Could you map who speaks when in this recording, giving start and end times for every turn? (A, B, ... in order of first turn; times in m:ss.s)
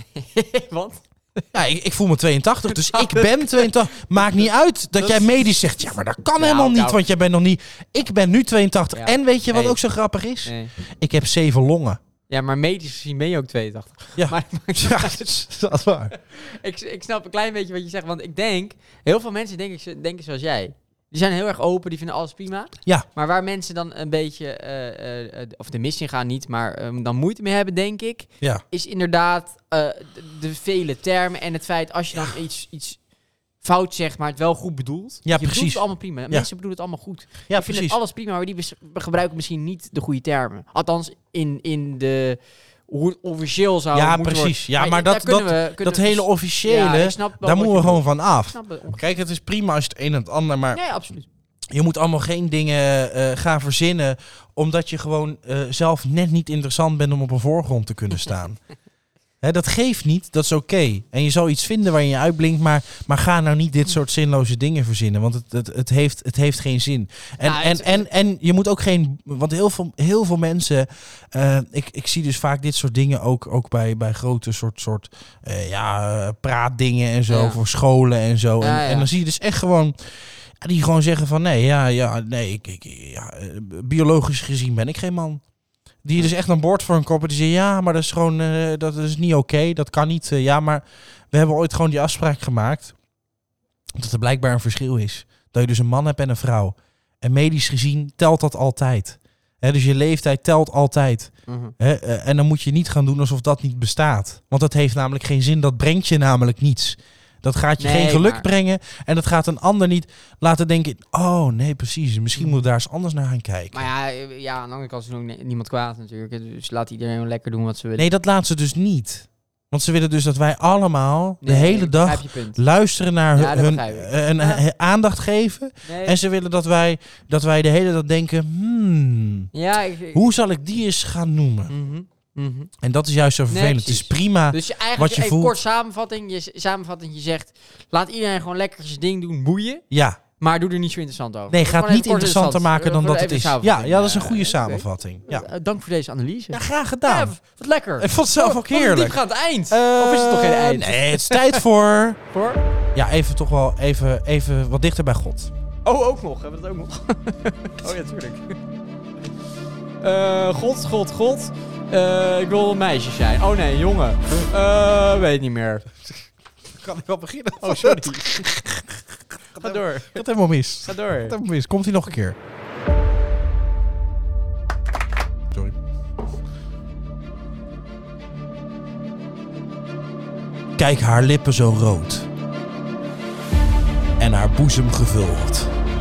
0:00.1-0:01.4 A
0:01.5-0:12.0 B
0:02.7-0:05.4 A
0:06.4-0:07.0 A
0:09.0-0:09.8 A
0:10.4-0:10.7 A
0:12.3-0:15.2 A
0:14.2-0:16.1 B
0:16.1-0:33.0 A
0:33.6-0:49.0 A
0:35.2-0:36.5 B
0:37.5-0:38.0 B
0:43.9-0:50.8 B
0:50.7-0:51.3 A
0:51.7-0:58.6 B
0:59.4-1:20.0 B
1:07.4-1:08.1 A
1:17.3-1:17.6 A
1:18.6-1:19.1 A
1:20.6-1:25.4 B
1:26.0-1:32.9 B
1:33.9-1:53.9 B
1:41.5-1:41.7 A
1:47.8-1:48.5 A
1:52.4-1:52.6 A
1:53.7-1:58.1 A
1:58.0-2:09.5 B
2:01.4-2:02.6 A
2:03.4-2:04.6 A
2:05.9-2:06.2 A
2:09.5-2:10.3 A
2:10.1-2:11.7 B
2:11.7-2:12.7 A
2:12.8-2:15.6 B
2:13.5-2:19.8 A
2:19.9-2:20.2 B
2:20.4-2:31.6 A
2:21.5-2:25.5 B
2:26.5-2:27.3 B
2:28.0-2:29.2 B
2:29.7-2:32.2 B
2:32.3-2:32.6 A
2:33.0-2:35.5 B
2:35.8-2:38.6 A
2:40.0-2:45.9 A
2:46.8-2:49.0 B
2:47.6-2:48.5 A
2:49.5-2:52.4 B
2:49.6-2:50.3 A
2:50.8-2:51.4 A
2:55.5-2:55.8 B
3:00.8-3:02.3 B
3:04.2-3:05.7 B